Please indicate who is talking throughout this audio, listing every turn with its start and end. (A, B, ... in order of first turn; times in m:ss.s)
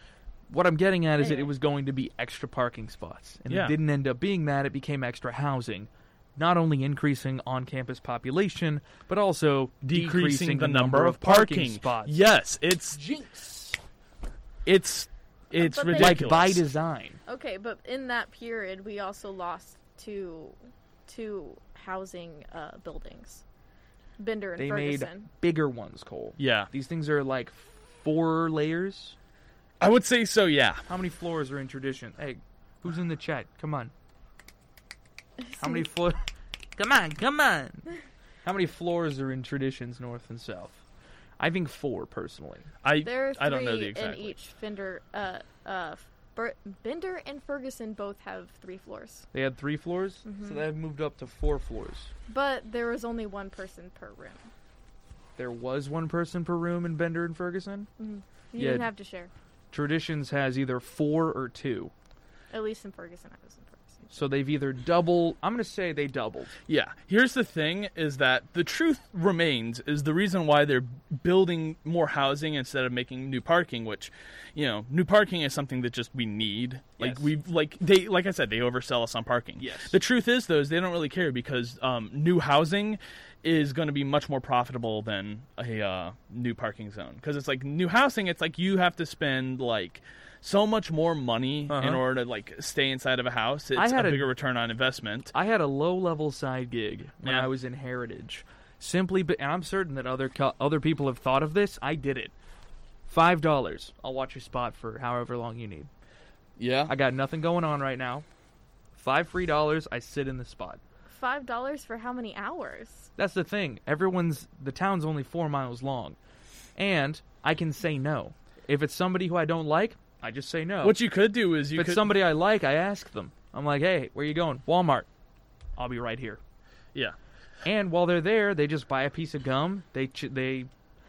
0:00.5-0:12.2 A
0:01.2-0:01.5 B
0:03.5-0:03.8 C
0:09.8-0:13.0 C
0:12.9-0:13.8 A
0:14.6-0:16.6 C
0:15.6-0:16.3 B
0:15.9-0:17.2 A
0:17.3-0:23.4 B
0:24.2-0:25.3 B
0:24.6-0:29.2 A
0:26.4-0:26.7 C
0:29.8-0:30.8 C
0:30.9-0:33.9 A
0:35.4-0:35.8 B
0:35.6-0:37.9 A
0:38.4-0:40.8 A
0:41.4-0:42.7 A
0:42.8-0:44.4 C
0:43.0-0:49.3 B
0:49.3-0:52.1 A
0:50.2-0:50.6 B
0:52.3-0:54.5 B
0:55.4-0:57.9 A
0:58.0-0:59.3 B
0:58.6-0:58.9 A
0:59.7-1:01.9 A
1:02.5-1:04.2 B
1:04.1-1:06.5 A
1:06.7-1:35.3 C
1:17.0-1:17.3 A
1:19.6-1:20.0 A
1:31.7-1:32.0 A
1:33.8-1:34.3 A
1:35.3-1:42.3 A
1:37.2-1:37.5 C
1:43.1-1:45.9 A
1:46.6-1:46.9 C
1:46.9-1:48.3 A
1:49.0-1:50.8 A
1:51.1-1:53.1 B
1:53.2-1:56.2 A
1:56.8-2:01.0 A
2:00.8-2:02.1 C
2:01.8-2:05.1 A
2:05.8-2:06.4 A
2:07.6-2:10.7 A